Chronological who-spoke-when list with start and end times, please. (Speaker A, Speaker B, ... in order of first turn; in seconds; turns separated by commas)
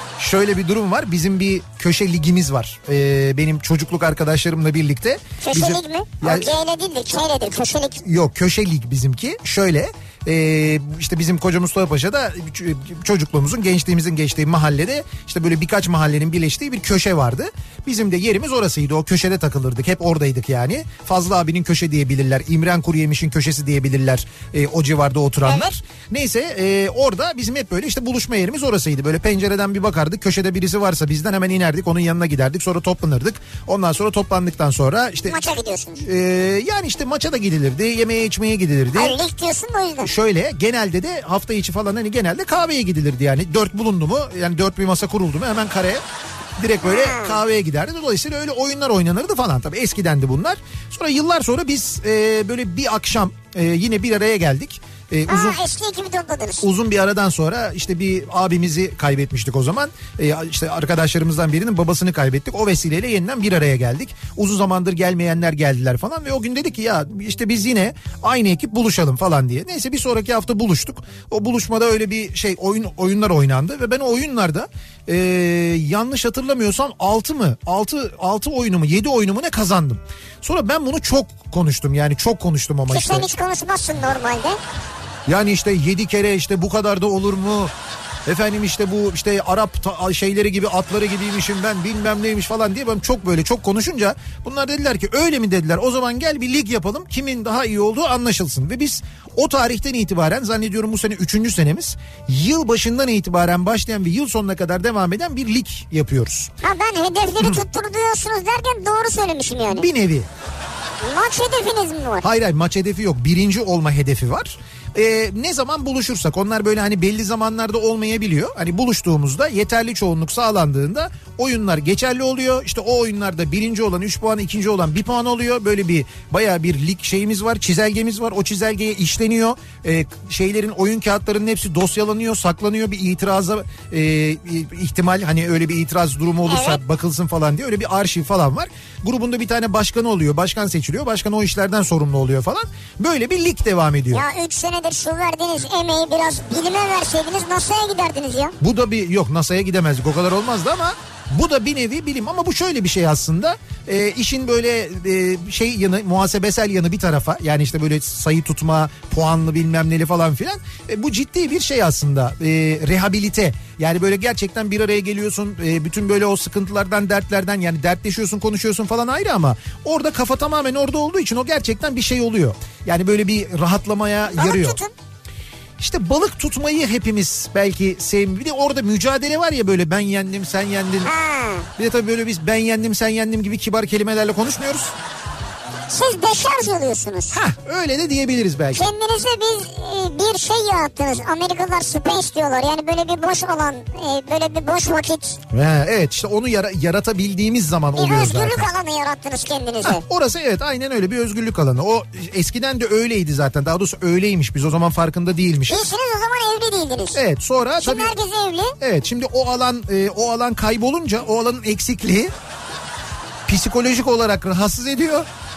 Speaker A: 0.2-6.5, Speaker B: 5.4-8.0, Speaker A: 8.0-35.4, Speaker B: 25.5-25.7, Speaker B: 35.3-36.1, Speaker A: 36.0-39.2, Speaker B: 38.9-40.1, Speaker A: 40.0-46.0, Speaker A: 46.6-55.6, Speaker B: 46.8-47.4, Speaker B: 55.3-56.7, Speaker A: 56.6-83.3, Speaker B: 82.9-84.6, Speaker A: 85.3-87.7, Speaker A: 88.2-106.5, Speaker B: 106.6-109.9, Speaker A: 109.7-110.3, Speaker B: 111.0-112.3, Speaker A: 112.2-144.2, Speaker B: 136.5-136.8, Speaker B: 144.1-148.6, Speaker A: 148.6-174.8, Speaker B: 174.4-174.9, Speaker A: 175.8-181.1, Speaker B: 181.0-181.7, Speaker A: 181.8-184.9, Speaker B: 185.9-187.4, Speaker A: 187.3-188.9, Speaker B: 188.7-195.4, Speaker A: 195.5-198.7, Speaker B: 197.9-200.0, Speaker A: 199.8-205.9, Speaker B: 205.7-207.2, Speaker A: 207.1-208.2, Speaker B: 207.8-208.8, Speaker A: 208.8-212.3, Speaker A: 213.5-215.3